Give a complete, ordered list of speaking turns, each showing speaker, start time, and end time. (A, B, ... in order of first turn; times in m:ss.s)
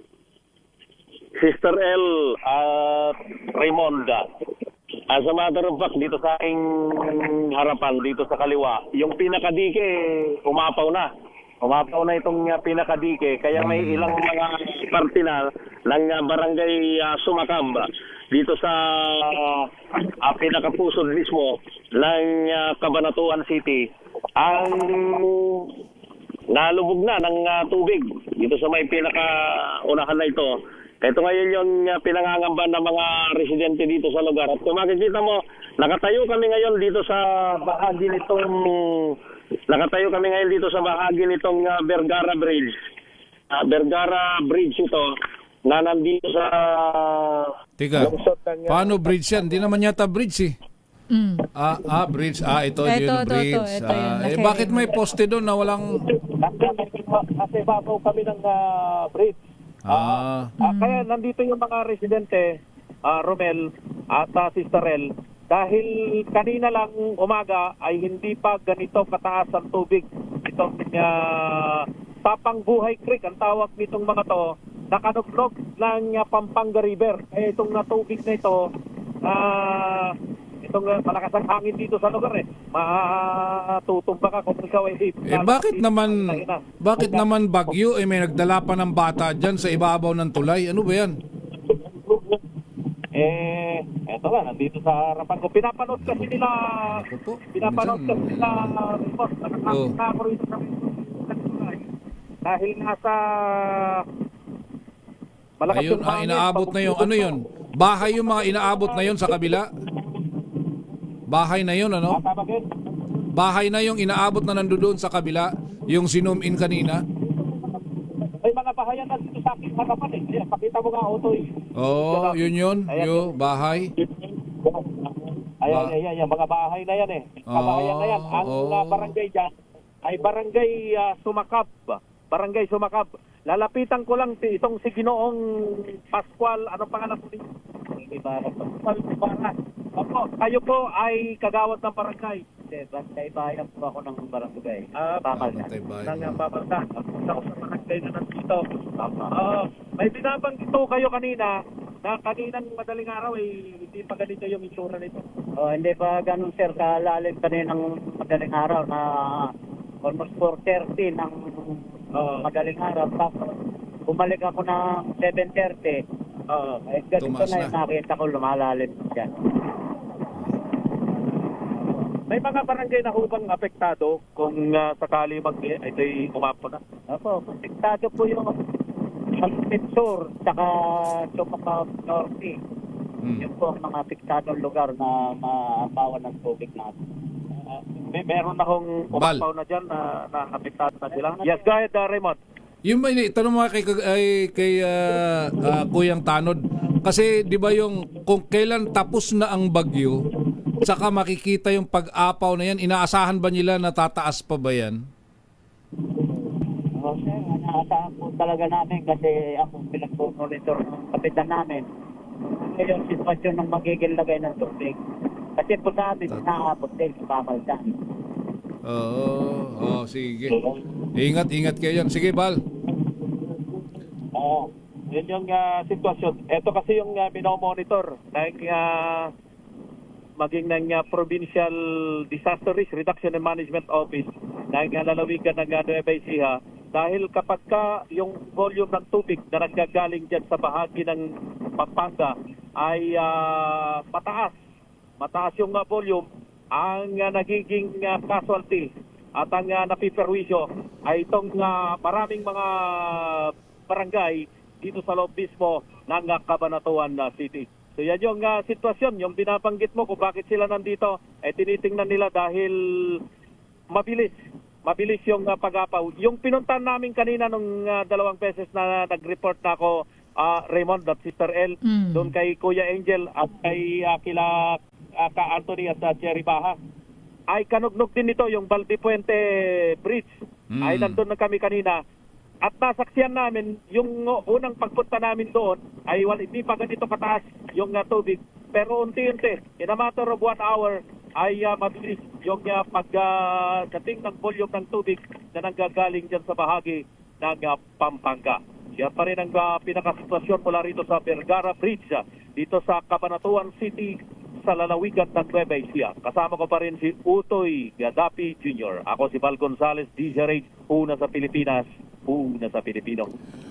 0:01.4-0:04.2 A
0:05.1-0:09.9 A
0:10.4-0:11.1 A
0:11.6-0:19.6 A
0:13.5-0:14.2 B
0:20.2-0:23.9 A
0:24.4-0:25.6 A
0:26.5-0:39.1 A
0:39.7-0:42.7 A
0:43.5-0:45.1 A
0:45.6-0:47.5 A
0:47.8-0:48.1 B
0:48.0-0:49.7 C
0:48.7-0:50.5 B
0:51.1-0:51.4 D
0:51.5-0:56.0 B
0:52.8-0:54.9 D
0:56.3-1:02.5 C
0:59.9-1:00.5 B
1:00.6-1:01.0 D
1:03.0-1:18.6 C
1:19.2-1:27.7 C
1:25.2-1:31.2 B
1:31.7-1:32.4 C
1:33.1-1:41.8 C
1:35.9-1:38.7 B
1:39.7-1:39.9 B
1:42.4-1:44.0 C
1:45.6-1:47.4 C
1:45.7-1:49.7 B
1:48.1-1:49.6 C
1:51.3-1:52.2 B
1:52.1-1:52.7 C
1:53.3-1:57.0 B
1:57.3-2:03.3 C
2:01.8-2:03.9 B
2:04.0-2:09.5 C
2:05.7-2:05.9 B
2:07.5-2:09.1 B
2:10.0-2:17.5 C
2:18.0-2:18.7 E
2:18.8-2:22.4 C
2:22.7-2:25.6 E
2:25.0-2:25.5 C
2:25.3-2:26.4 B
2:26.0-2:35.2 C
2:35.6-2:39.5 E
2:40.0-2:41.8 E
2:42.1-2:42.5 C
2:42.4-2:43.5 E
2:44.1-2:46.0 E
2:46.5-2:46.8 C
2:46.9-2:49.3 E
2:47.2-2:47.7 B
2:52.3-2:56.8 C
2:57.1-2:58.5 E
2:59.3-3:02.6 E
3:03.2-3:03.5 B
3:03.4-3:07.0 E
3:07.6-3:12.4 C
3:09.1-3:09.4 B
3:11.1-3:11.7 E
3:12.8-3:20.2 B
3:20.8-3:25.0 B
3:27.0-3:31.8 E
3:32.5-3:35.0 E
3:35.6-3:37.9 E
3:38.8-3:40.6 B
3:41.1-3:42.6 B
3:44.3-3:49.3 C
3:50.4-4:01.2 C
4:01.8-4:04.6 C
4:05.2-4:23.2 C
4:23.9-4:24.3 C
4:24.8-4:36.8 C
4:31.8-4:32.3 D
4:37.5-4:42.0 C
4:40.7-4:41.2 B
4:42.6-5:13.3 C